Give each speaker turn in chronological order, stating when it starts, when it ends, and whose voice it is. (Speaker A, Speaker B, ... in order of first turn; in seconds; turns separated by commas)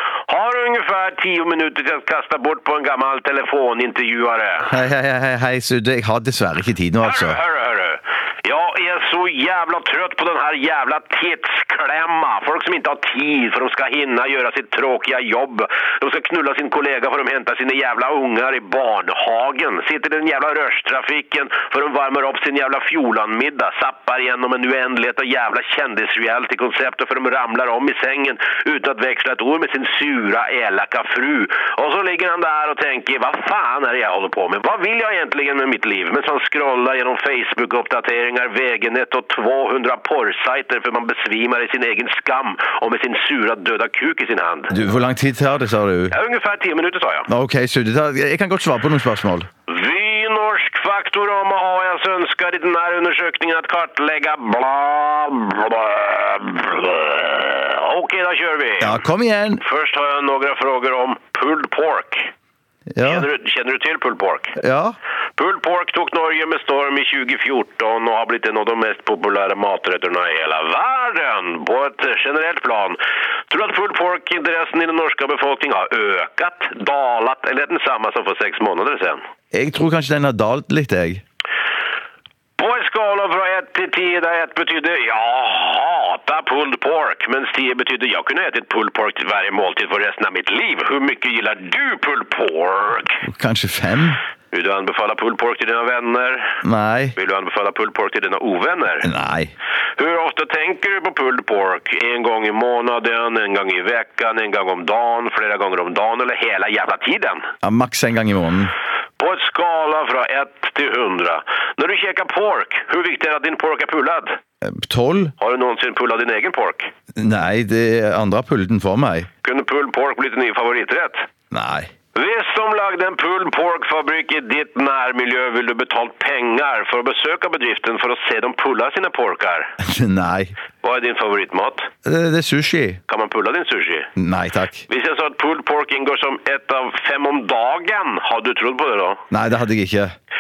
Speaker A: 0.3-4.7, Speaker B: 4.7-7.4, Speaker A: 7.0-44.8, Speaker B: 44.7-46.1, Speaker A: 46.1-47.3, Speaker B: 47.3-49.5, Speaker A: 49.7-59.0, Speaker B: 58.8-59.6, Speaker A: 59.6-62.3, Speaker B: 62.9-63.3, Speaker A: 63.0-64.5, Speaker B: 64.6-65.0, Speaker A: 65.4-73.0, Speaker A: 73.5-79.2, Speaker B: 79.5-81.2, Speaker A: 82.6-93.2, Speaker B: 93.2-94.2, Speaker A: 94.5-96.6, Speaker B: 96.6-97.1, Speaker A: 97.2-99.1, Speaker B: 99.0-99.5, Speaker A: 100.0-107.5, Speaker B: 107.6-108.7, Speaker A: 109.2-114.3, Speaker B: 114.6-115.3, Speaker A: 115.4-116.9, Speaker B: 117.2-119.3, Speaker A: 119.4-121.2, Speaker B: 121.5-121.9, Speaker A: 122.1-129.7, Speaker B: 129.8-130.5, Speaker A: 130.8-131.9, Speaker B: 132.0-133.0, Speaker A: 133.1-134.1, Speaker B: 134.2-134.8, Speaker A: 134.9-139.2, Speaker B: 139.3-140.1